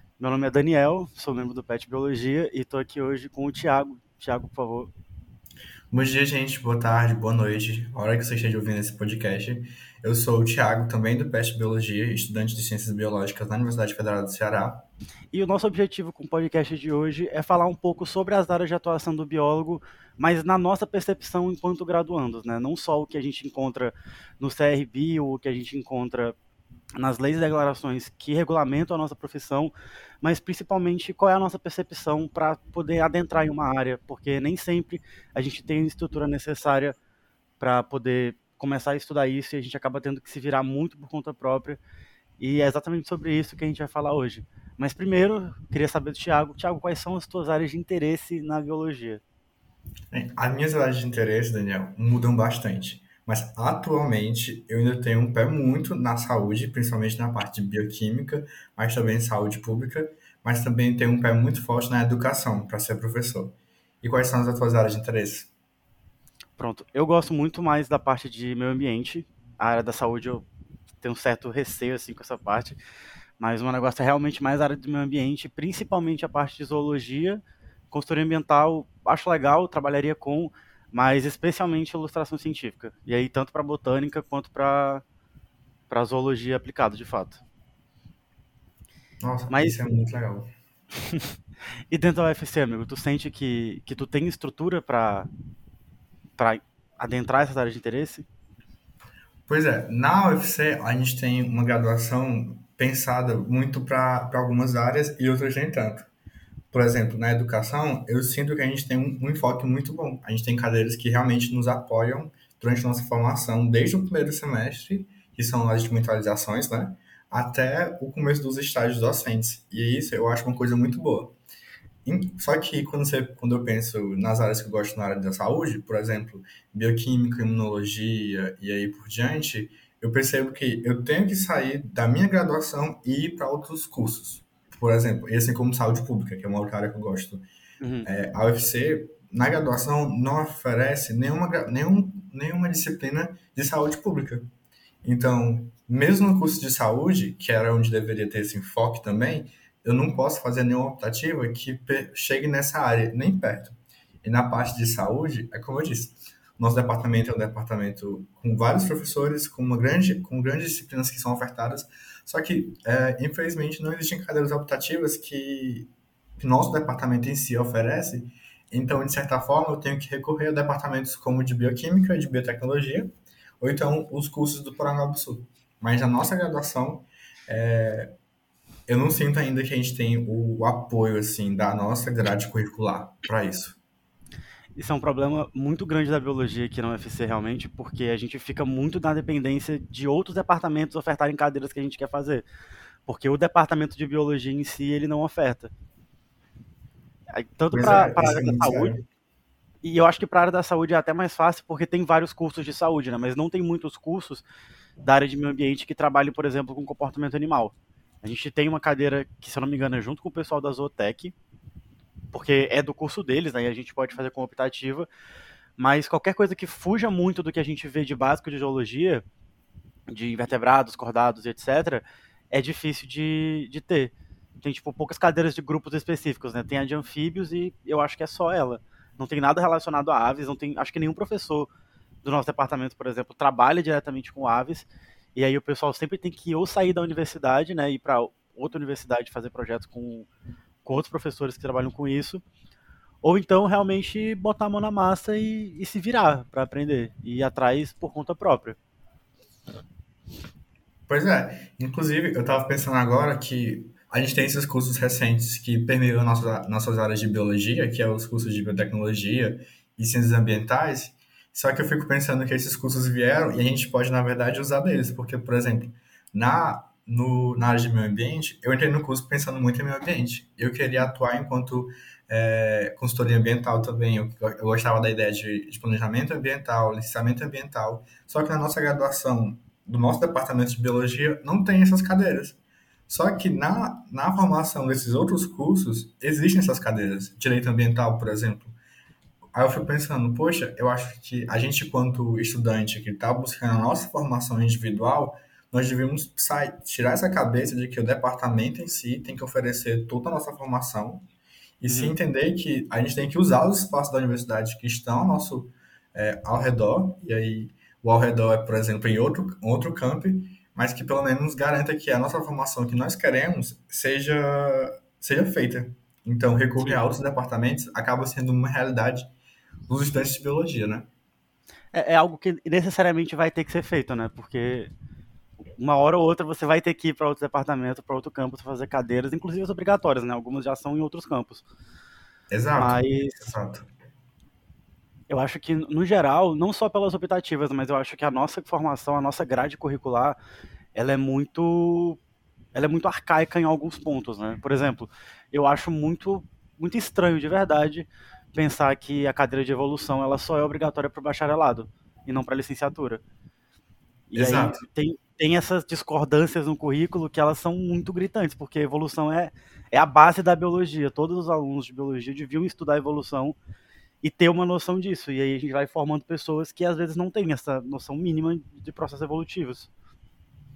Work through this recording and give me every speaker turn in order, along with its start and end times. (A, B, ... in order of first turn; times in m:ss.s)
0:00.2-0:04.9 A
0:05.9-0:14.9 B
0:15.3-0:26.4 A
0:27.0-0:37.0 A
0:37.6-0:41.8 A
0:42.4-0:49.2 A
0:50.1-1:05.5 B
1:06.6-1:10.5 A
1:11.0-1:12.8 A
1:13.4-1:25.0 A
1:25.9-1:27.4 A
1:29.2-1:30.5 B
1:29.5-1:29.8 A
1:31.9-1:35.3 A
1:36.4-1:38.3 A
1:39.5-1:46.1 B
1:46.7-2:01.4 B
2:02.0-2:17.4 B
2:17.8-2:18.1 A
2:18.0-2:24.5 B
2:25.0-2:58.1 B
2:58.9-3:03.8 B
3:04.8-3:12.4 A
3:13.1-3:15.7 A
3:17.3-3:19.0 A
3:17.7-3:19.0 B
3:19.8-3:24.4 A
3:25.0-3:31.3 A
3:32.3-3:35.1 A
3:35.8-3:39.2 A
3:40.1-3:51.7 A
3:52.2-4:00.3 A
4:00.8-4:02.4 A
4:03.2-4:08.8 A
4:11.1-4:48.8 B
4:49.5-5:01.2 B
5:01.8-5:19.3 B
5:01.9-5:02.2 A
5:16.8-5:17.0 A
5:19.9-5:21.1 B
5:21.9-5:24.9 A
5:25.8-5:31.6 A
5:32.5-5:33.9 B
5:32.8-5:33.5 A
5:35.3-5:40.4 A
5:41.0-5:42.2 A
5:42.8-5:53.2 A
5:54.3-6:03.6 A
5:54.4-5:54.8 B
6:04.2-6:09.9 A